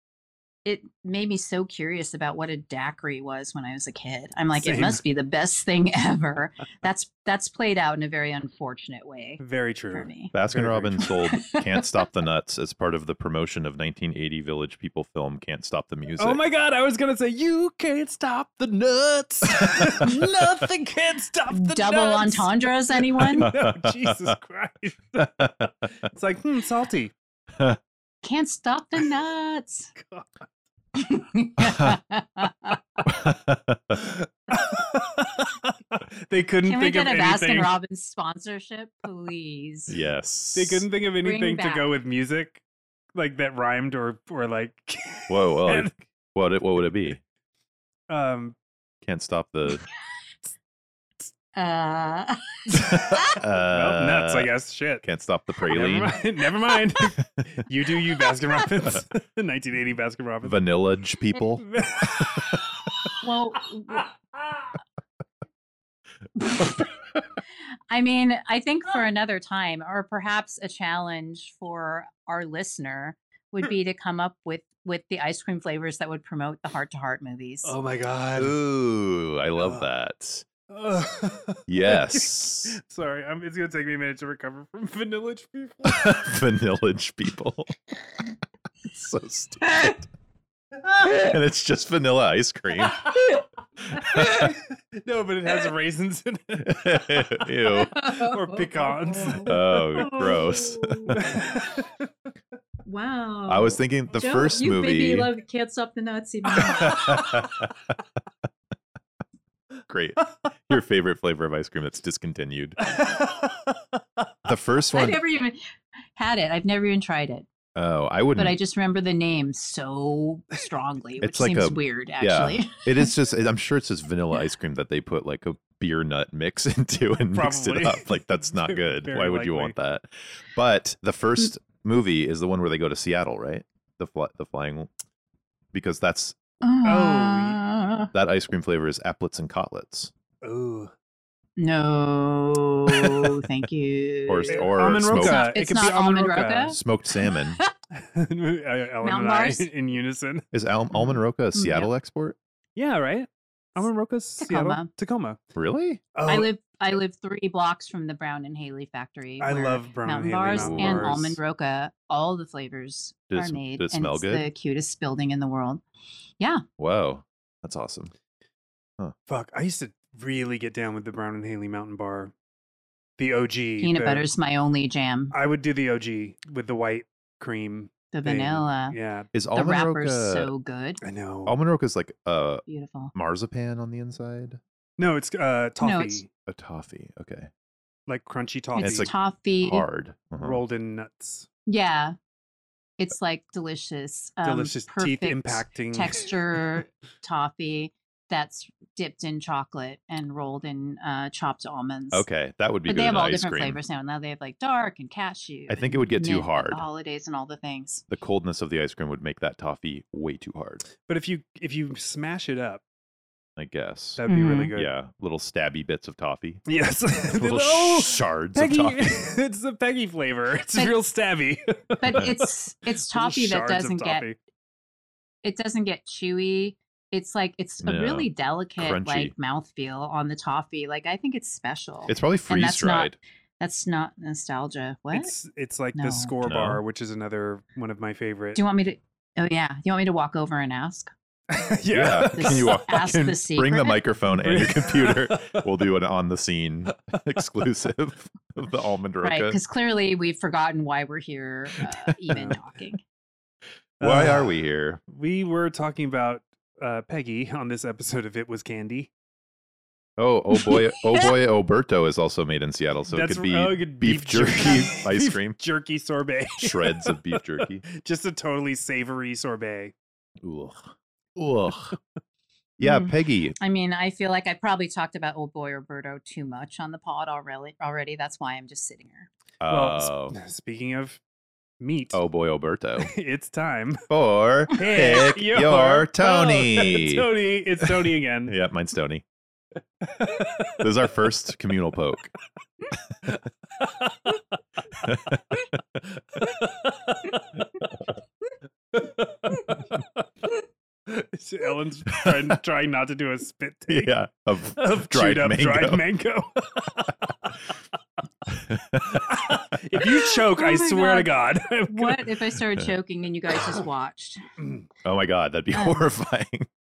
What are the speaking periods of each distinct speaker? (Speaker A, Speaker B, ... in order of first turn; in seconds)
Speaker A: 0.7-9.4, 9.9-10.3, 11.3-11.9, 21.5-23.5, 28.2-29.9, 31.0-32.8, 36.6-40.0, 41.2-41.9, 51.5-53.2, 63.2-64.1, 66.4-66.9, 67.9-77.8, 97.7-101.6, 102.9-107.4, 114.9-115.6, 116.2-117.5, 118.4-123.1, 136.6-138.1, 141.6-146.8, 147.3-147.7, 149.0-149.7, 150.9-151.9, 154.4-154.9, 156.3-165.8, 173.8-175.3, 178.1-179.0, 179.5-181.0, 182.7-183.1, 185.8-186.2, 188.8-189.8, 191.7-192.2, 193.0-202.2, 202.9-208.0, 214.3-214.7, 222.0-224.3, 225.4-235.3, 235.9-236.3, 238.6-241.1, 242.3-244.0, 249.2-253.0, 272.8-279.3, 310.5-314.4, 315.7-316.1
Speaker B: 4.6-5.0, 9.4-11.1, 16.2-27.1, 30.0-30.3, 34.5-37.8, 40.5-42.6, 43.1-45.9, 48.1-48.6, 52.7-53.2, 53.7-55.0, 55.7-60.6, 61.6-63.2, 63.9-64.7, 77.7-78.6, 79.6-79.9, 80.7-86.2, 94.0-100.2, 101.2-101.9, 112.8-114.3, 127.3-129.8, 136.8-137.6, 140.4-140.9, 144.5-146.8, 147.9-150.5, 152.8-155.4, 156.1-156.5, 159.4-161.4, 169.3-172.3, 173.2-174.3, 175.3-179.3, 181.0-181.6, 185.0-186.3, 188.1-189.1, 190.4-191.5, 194.4-196.3, 211.0-212.8, 214.2-214.9, 216.7-222.5, 223.1-224.4, 235.1-238.6, 241.5-242.8, 244.4-245.7, 252.3-252.6, 254.0-254.6, 255.1-259.1, 263.1-269.9, 279.7-281.2, 281.8-282.2, 283.0-284.0, 284.7-288.6, 290.0-290.9, 293.3-294.4, 296.4-297.9, 298.9-300.5, 301.1-304.1, 304.8-307.6, 309.1-312.4, 314.6-314.9
Speaker C: 10.3-16.4, 19.6-20.1, 23.4-24.3, 25.2-25.7, 27.5-27.8, 31.6-32.0, 33.0-34.3, 39.9-40.9, 45.3-47.2, 49.0-49.8, 53.1-54.5, 55.0-56.2, 60.4-62.6, 78.4-80.5, 81.7-82.8, 85.8-87.8, 88.9-90.1, 90.9-93.2, 93.9-94.6, 96.6-98.0, 99.5-101.4, 103.5-105.3, 106.8-107.7, 109.9-112.8, 114.5-115.2, 117.8-118.6, 121.2-134.9, 135.7-136.4, 138.1-140.1, 144.3-145.5, 146.7-147.6, 150.5-152.4, 155.6-156.0, 160.5-161.2, 163.3-164.5, 166.8-168.1, 179.3-180.5, 181.5-184.6, 186.5-187.5, 188.8-190.6, 202.1-203.8, 205.7-206.8, 208.1-210.8, 213.6-216.6, 217.4-219.2, 227.8-229.3, 232.1-233.2, 236.4-236.8, 241.9-249.6, 254.0-255.0, 260.2-265.6, 266.6-267.8, 270.4-272.0, 272.8-273.6, 279.6-280.4, 282.1-283.1, 284.1-287.3, 287.8-289.2, 290.8-292.3, 295.0-295.6, 302.1-302.5, 303.9-306.0, 308.5-309.2, 315.0-316.7